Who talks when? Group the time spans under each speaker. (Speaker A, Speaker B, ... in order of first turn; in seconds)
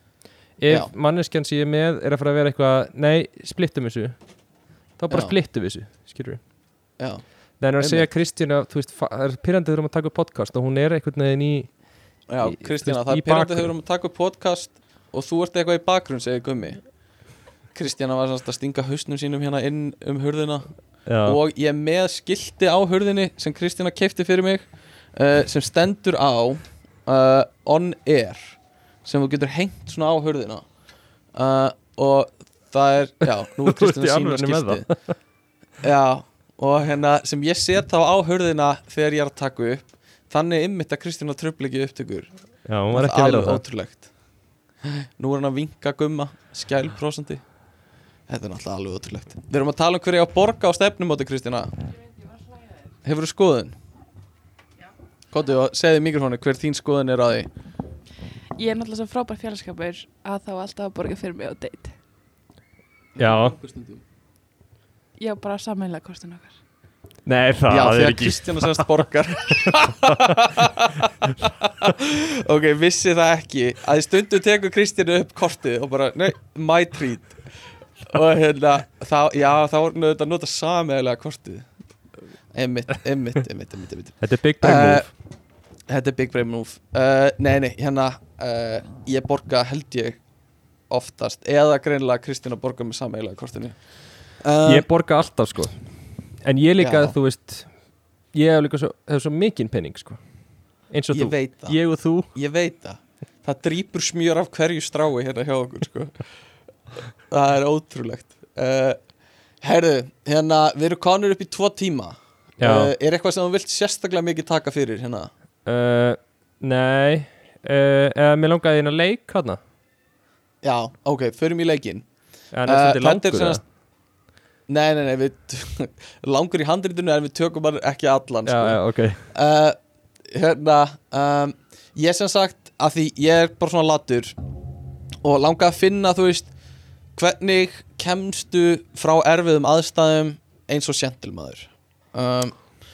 Speaker A: 0.6-4.2, 5.0-6.4, 7.6-11.7, 12.4-13.7, 21.1-21.4, 33.5-35.0, 42.7-43.6, 63.2-63.6, 67.2-68.9, 69.5-70.5, 84.2-85.1, 94.6-95.8, 96.4-97.7, 98.3-100.2, 100.9-102.3, 112.6-112.9, 115.7-119.6, 122.5-123.6, 128.4-129.2
Speaker B: 7.8-8.1, 12.3-16.8, 17.7-20.7, 21.2-30.6, 31.3-34.8, 35.8-42.3, 42.9-44.1, 44.8-47.4, 48.3-51.7, 53.0-53.7, 55.3-57.5, 63.1-64.0, 67.7-77.4, 78.0-81.7, 82.5-85.1, 85.9-90.2, 90.9-93.8, 94.4-94.9, 96.8-97.2, 101.1-101.8, 102.3-106.2, 107.3-109.0, 109.6-115.3, 120.6-122.0, 122.7-123.6, 124.7-128.8, 129.3-134.3, 135.2-136.5, 137.1-142.6
Speaker C: 58.5-61.9, 65.2-66.5